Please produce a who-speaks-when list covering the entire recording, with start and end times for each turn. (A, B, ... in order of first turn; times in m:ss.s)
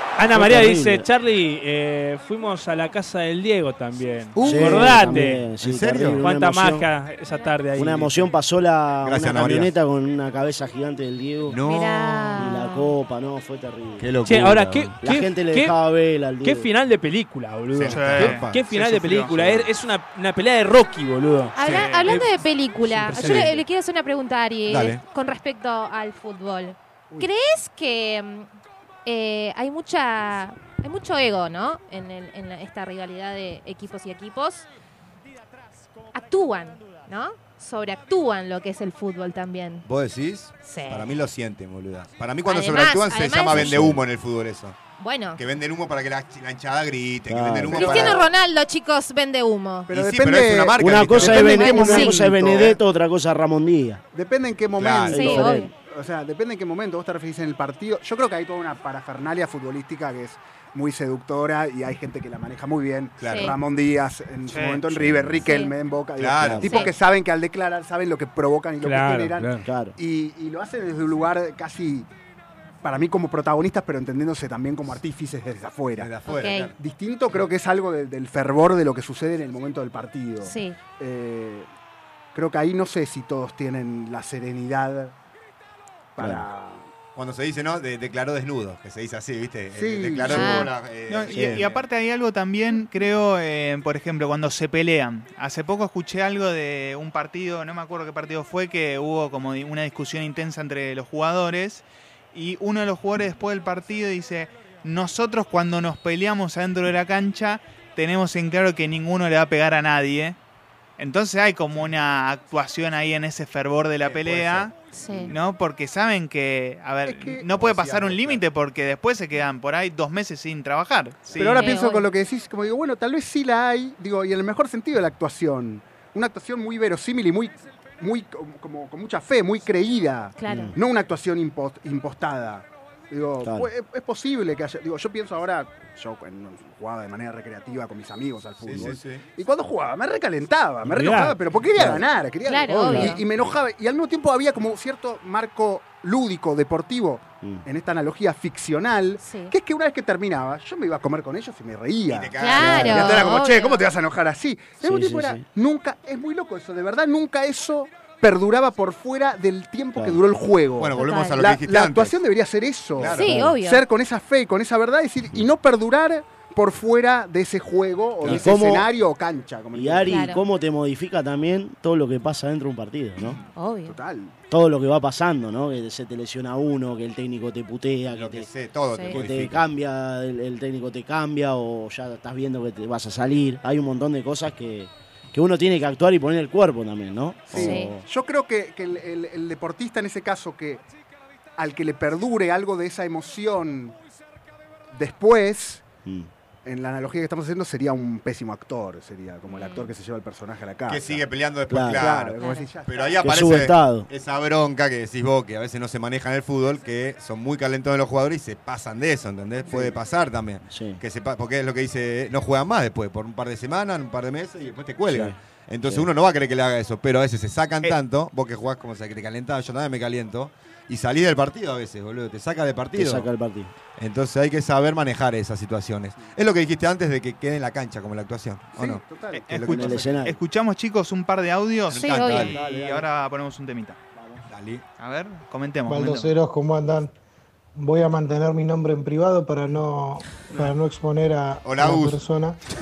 0:00.2-0:05.4 A
0:00.3-0:01.0 B
0:04.4-0:04.6 C
0:04.4-0:06.9 B
0:05.6-0:06.2 C
0:06.2-0:08.3 A
0:07.3-0:07.5 D
0:07.7-0:11.6 B
0:09.0-0:09.7 C
0:11.5-0:12.4 C
0:11.6-0:13.0 D
0:12.3-0:14.1 B
0:14.0-0:14.9 C
0:14.2-0:15.7 A
0:15.0-0:16.7 B
0:16.4-0:23.6 A
0:17.7-0:18.6 C
0:17.9-0:19.6 E
0:21.5-0:28.5 D
0:23.2-0:23.5 C
0:24.7-0:25.0 C
0:29.0-0:34.7 D
0:36.1-0:39.8 D
0:39.8-0:44.8 C
0:40.6-0:41.2 D
0:42.4-0:43.8 D
0:43.5-0:44.0 B
0:45.0-0:45.4 D
0:45.4-0:48.3 C
0:47.3-0:48.1 B
0:47.7-0:49.9 D
0:47.8-0:48.2 F
0:49.9-0:52.8 F
0:49.9-0:52.0 C
0:50.8-0:54.0 B
0:51.3-0:52.3 D
0:54.1-1:12.1 F
0:54.8-0:55.3 C
0:55.1-0:55.7 B
0:55.1-0:55.7 D
1:03.2-1:03.5 C
1:03.2-1:03.6 D
1:04.5-1:04.9 E
1:05.4-1:05.7 D
1:06.2-1:06.8 C
1:06.4-1:06.8 B
1:06.6-1:06.9 D
1:08.8-1:09.6 A
1:09.6-1:09.9 B
1:12.8-1:16.1 F
1:16.0-1:16.7 C
1:16.2-1:16.7 D
1:16.8-1:21.7 F
1:20.4-1:20.8 D
1:22.3-1:25.1 F
1:26.2-1:26.8 F
1:26.2-1:26.4 B
1:27.1-1:31.8 C
1:29.7-1:30.7 F
1:30.3-1:30.7 D
1:31.1-1:50.4 E
1:31.3-1:31.6 B
1:51.0-1:54.7 E
1:54.0-1:54.7 C
1:54.9-1:55.3 D
1:55.3-2:01.7 E
1:57.0-1:57.4 F
1:57.5-1:58.4 C
2:01.4-2:50.2 F
2:01.4-2:02.0 D
2:10.4-2:10.7 D
2:10.5-2:10.8 B
2:18.6-2:19.2 C
2:20.9-2:21.4 A
2:21.7-2:22.0 B
2:22.4-2:23.2 D
2:22.8-2:23.2 B
2:29.2-2:29.5 D
2:32.1-2:33.2 C
2:32.4-2:33.8 D
2:32.6-2:33.0 B
2:34.8-2:35.4 B
2:40.8-2:42.2 C
2:40.9-2:41.4 D
2:43.0-2:43.5 C
2:43.1-2:43.8 D
2:43.2-2:43.6 B
2:48.2-2:48.5 C
2:48.2-2:48.9 B
2:49.7-2:53.4 B
2:50.1-2:50.4 D
2:53.5-2:54.0 D
2:53.8-2:54.3 F
2:54.5-2:58.5 B
2:58.1-2:59.6 C
2:58.9-2:59.2 D
2:59.1-3:08.0 B
3:07.5-3:10.8 F
3:07.5-3:08.0 D
3:11.6-3:13.9 F
3:14.9-3:15.8 F
3:16.6-3:21.2 F
3:19.5-3:19.9 D
3:20.9-3:43.3 C
3:21.7-3:22.1 B
3:21.9-3:23.3 F
3:22.3-3:22.7 D
3:23.2-3:24.1 B
3:29.7-3:29.9 F
3:30.7-3:31.0 B
3:35.1-3:36.1 B
3:42.9-3:43.7 B
3:44.0-3:50.1 C
3:48.8-3:49.9 F
3:49.3-3:54.0 E
3:49.7-3:50.4 B
3:51.9-3:52.5 C
3:51.9-3:52.5 D
3:52.4-3:53.0 B
3:54.5-3:54.8 C
3:55.0-3:56.3 E
3:55.9-3:57.1 G
3:57.8-4:02.6 G
4:01.6-4:02.2 C